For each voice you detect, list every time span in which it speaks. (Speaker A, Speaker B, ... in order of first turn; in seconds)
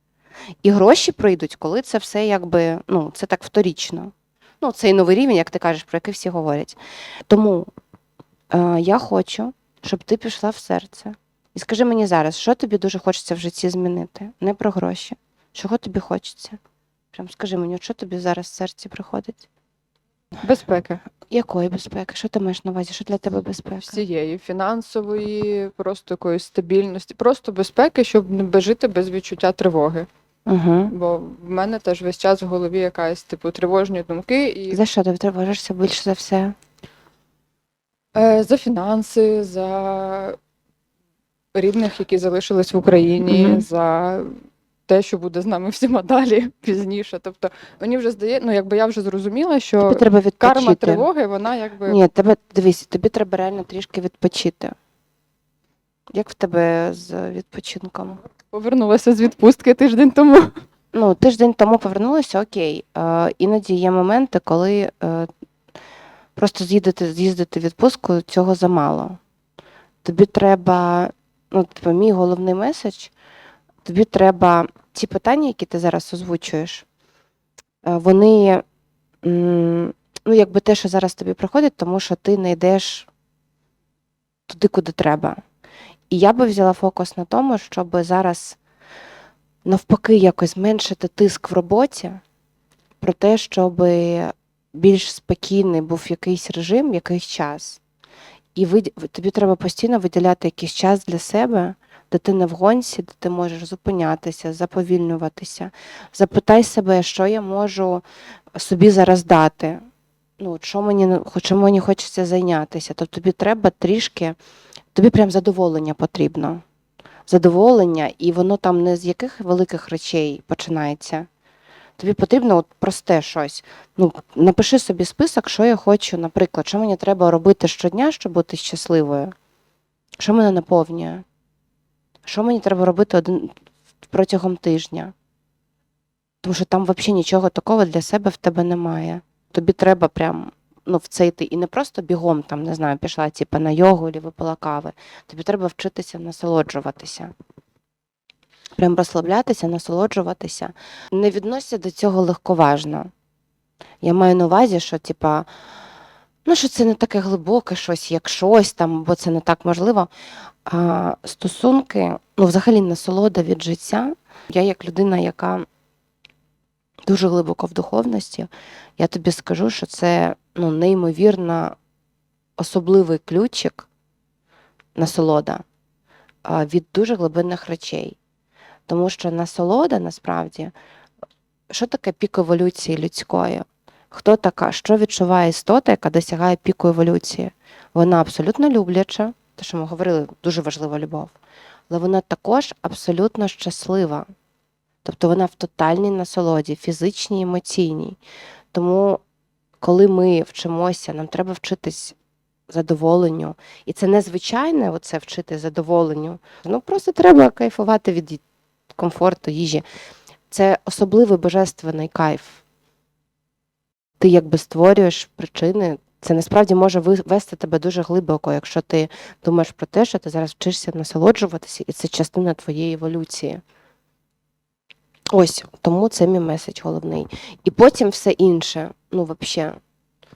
Speaker A: 0.6-6.8, 7.3-7.7, 8.5-16.6, 17.1-19.5, 21.3-24.0, 30.5-30.9, 34.7-36.6, 43.3-43.7, 49.8-51.1, 51.9-54.8, 56.1-58.2, 60.9-65.3, 66.4-69.2, 70.0-73.1, 73.8-76.8, 77.8-78.6, 79.2-83.1, 84.5-85.4, 86.1-88.6, 89.7-92.2, 93.0-97.8, 98.6-108.0, 108.5-109.8, 110.4-114.4, 114.9-116.6, 117.3-121.3, 122.0-129.3, 130.2-131.2, 132.2-133.6, 134.1-135.1, 136.4-147.3, 148.8-153.1, 154.0-155.5, 156.5-160.1, 160.7-165.7, 167.1-171.8, 172.6-173.9, 175.0-175.6, 176.4-178.2, 178.9-180.7, 181.7-191.4, 191.9-194.3, 195.0-198.2, 198.7-199.2, 199.8-202.2, 202.7-209.8, 210.5-212.6, 214.2-223.6, 225.3-229.8
Speaker B: 20.4-21.0, 23.8-30.1, 30.9-34.8, 38.1-40.4, 41.5-52.0, 58.5-60.5